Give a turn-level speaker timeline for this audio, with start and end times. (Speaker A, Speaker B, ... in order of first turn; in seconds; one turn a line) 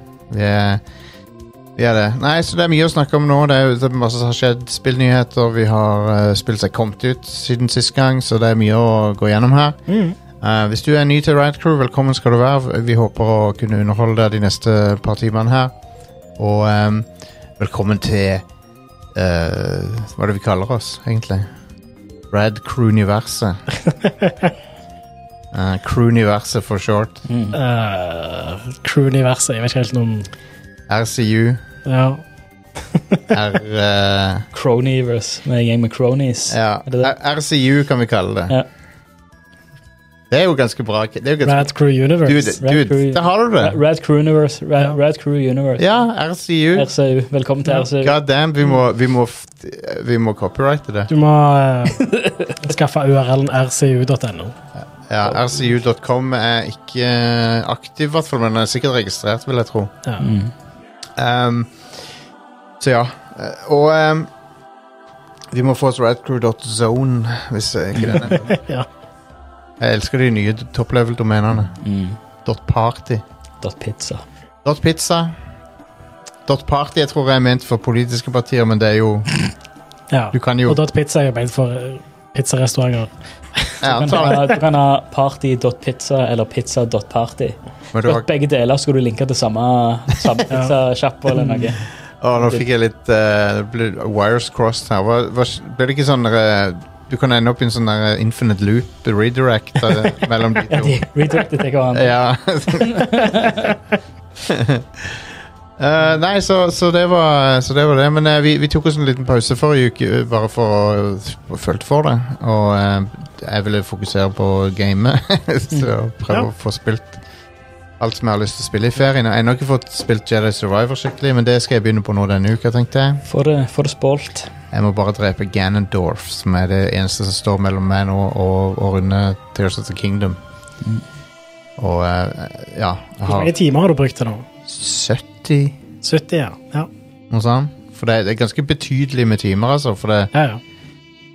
Speaker A: 0.3-0.8
Speaker A: 1.8-9.8
Speaker B: 9.9-10.2
Speaker A: 10.3-15.7
Speaker A: 16.4-17.1
Speaker A: 17.6-18.4
Speaker A: 19.1-21.5
Speaker A: 22.3-23.6
Speaker B: 24.0-24.5
Speaker A: 25.5-27.2
Speaker C: 27.3-27.6
Speaker B: 27.5-30.3
Speaker A: 30.9-31.6
Speaker B: 31.9-32.2
Speaker B: 32.9-33.2
Speaker A: 33.3-34.5
Speaker C: 34.5-37.1
Speaker A: 36.5-38.5
Speaker A: 40.3-41.7
Speaker B: 41.4-42.6
Speaker A: 42.2-43.8
Speaker C: 42.6-45.9
Speaker A: 45.8-46.9
Speaker C: 46.7-48.2
Speaker A: 47.9-51.1
Speaker B: 51.1-54.5
Speaker C: 52.0-52.5
Speaker A: 54.8-59.9
Speaker B: 60.0-60.3
Speaker C: 60.2-60.5
Speaker A: 61.2-61.7
Speaker A: 62.8-64.3
Speaker A: 65.5-68.4
Speaker B: 68.1-68.9
Speaker A: 69.8-71.7
Speaker C: 71.8-72.2
Speaker A: 72.4-73.2
Speaker C: 73.6-74.2
Speaker A: 74.6-75.3
Speaker A: 76.5-79.4
Speaker B: 80.1-84.5
Speaker A: 80.3-80.8
Speaker A: 83.8-84.4
Speaker C: 83.9-91.8
Speaker A: 87.9-88.2
Speaker B: 91.3-91.7
Speaker A: 92.2-101.1
Speaker C: 92.3-92.6
Speaker C: 100.7-102.1
Speaker A: 101.9-103.6
Speaker C: 102.8-103.7
Speaker A: 104.5-105.2
Speaker A: 105.8-117.2
Speaker A: 118.0-123.2
Speaker C: 123.3-124.5
Speaker A: 124.7-130.4
Speaker A: 131.8-133.5
Speaker B: 133.2-134.4
Speaker A: 134.7-135.8
Speaker B: 136.0-136.9
Speaker A: 137.3-140.3
Speaker B: 140.3-140.6